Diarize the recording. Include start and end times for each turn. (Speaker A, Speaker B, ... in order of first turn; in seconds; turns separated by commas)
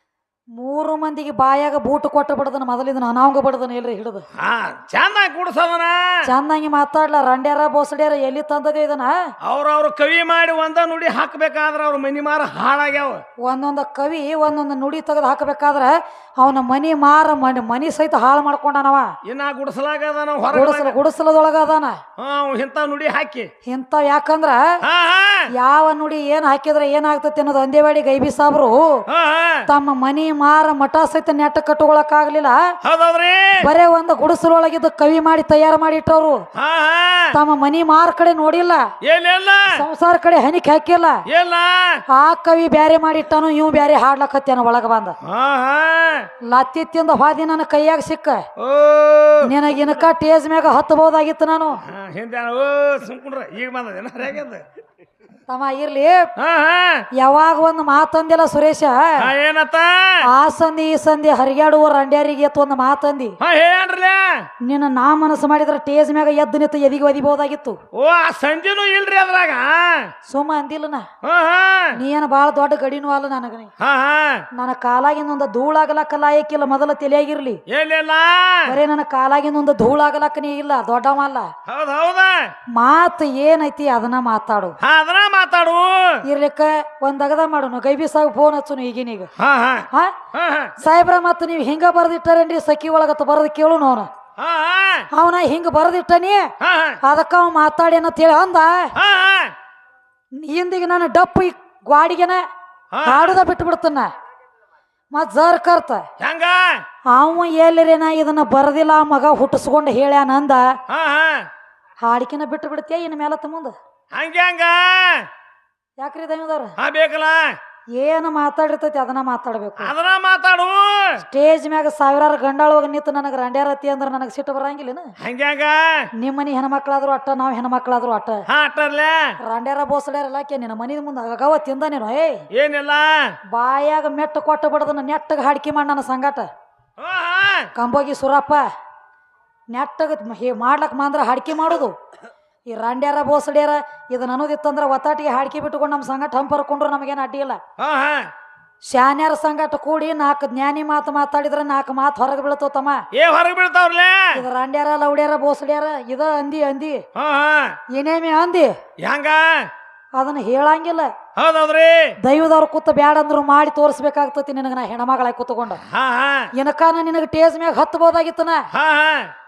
Speaker A: 0.6-4.2, Speaker B: 4.4-6.2, Speaker A: 6.2-9.2, Speaker B: 9.4-13.2, Speaker A: 13.4-19.1, Speaker B: 19.2-21.0, Speaker A: 20.5-22.0, Speaker B: 22.2-23.5, Speaker A: 23.6-24.6, Speaker B: 24.9-25.5, Speaker A: 25.6-29.0, Speaker B: 29.1-29.6, Speaker A: 29.7-32.7, Speaker B: 32.8-33.7, Speaker A: 33.6-36.4, Speaker B: 36.5-37.4, Speaker A: 37.3-38.9, Speaker B: 39.0-39.8, Speaker A: 39.7-41.2, Speaker B: 41.3-42.0, Speaker A: 42.1-45.2, Speaker B: 45.2-46.3, Speaker A: 46.5-48.5, Speaker B: 48.6-49.5, Speaker A: 49.4-51.8, Speaker B: 51.8-54.6, Speaker A: 55.5-56.3, Speaker B: 56.4-57.0, Speaker A: 57.1-59.3, Speaker B: 59.2-60.2, Speaker A: 60.3-63.4, Speaker B: 63.4-64.4, Speaker A: 64.6-67.8, Speaker B: 67.9-70.1, Speaker A: 70.3-71.1, Speaker B: 71.2-72.0, Speaker A: 71.9-73.7, Speaker B: 73.8-74.5, Speaker A: 74.5-77.6, Speaker B: 77.7-78.8, Speaker A: 78.6-81.5, Speaker B: 81.6-82.5, Speaker A: 82.7-84.8, Speaker B: 84.8-86.2, Speaker A: 86.2-89.3, Speaker B: 89.4-90.7, Speaker A: 89.9-90.2, Speaker A: 90.8-94.1, Speaker B: 94.4-95.1, Speaker A: 95.1-96.5, Speaker B: 96.6-97.0, Speaker A: 97.0-98.9, Speaker B: 99.0-99.5, Speaker A: 100.4-102.4, Speaker B: 102.9-103.4, Speaker A: 103.0-104.1, Speaker A: 105.1-106.0, Speaker B: 106.2-106.8, Speaker A: 107.1-110.7, Speaker B: 110.9-111.5, Speaker A: 112.0-113.7, Speaker B: 114.1-115.3, Speaker A: 116.0-116.7, Speaker B: 116.8-117.5, Speaker A: 118.0-119.9, Speaker B: 119.8-121.2, Speaker A: 121.2-125.1, Speaker B: 125.2-126.1, Speaker A: 126.2-128.4, Speaker B: 128.5-129.3, Speaker A: 129.4-132.4, Speaker B: 132.5-133.2, Speaker A: 133.5-136.5, Speaker B: 137.0-137.7, Speaker A: 137.7-138.6, Speaker A: 139.7-141.9, Speaker A: 142.7-147.6, Speaker B: 147.8-148.3, Speaker A: 148.8-153.0, Speaker B: 153.1-154.4, Speaker A: 154.3-157.0, Speaker B: 157.1-157.8, Speaker A: 157.9-158.8, Speaker B: 159.0-159.7, Speaker A: 160.2-161.2, Speaker B: 161.3-162.1, Speaker A: 162.2-165.8, Speaker B: 165.9-166.5, Speaker A: 166.5-168.6, Speaker B: 168.7-169.3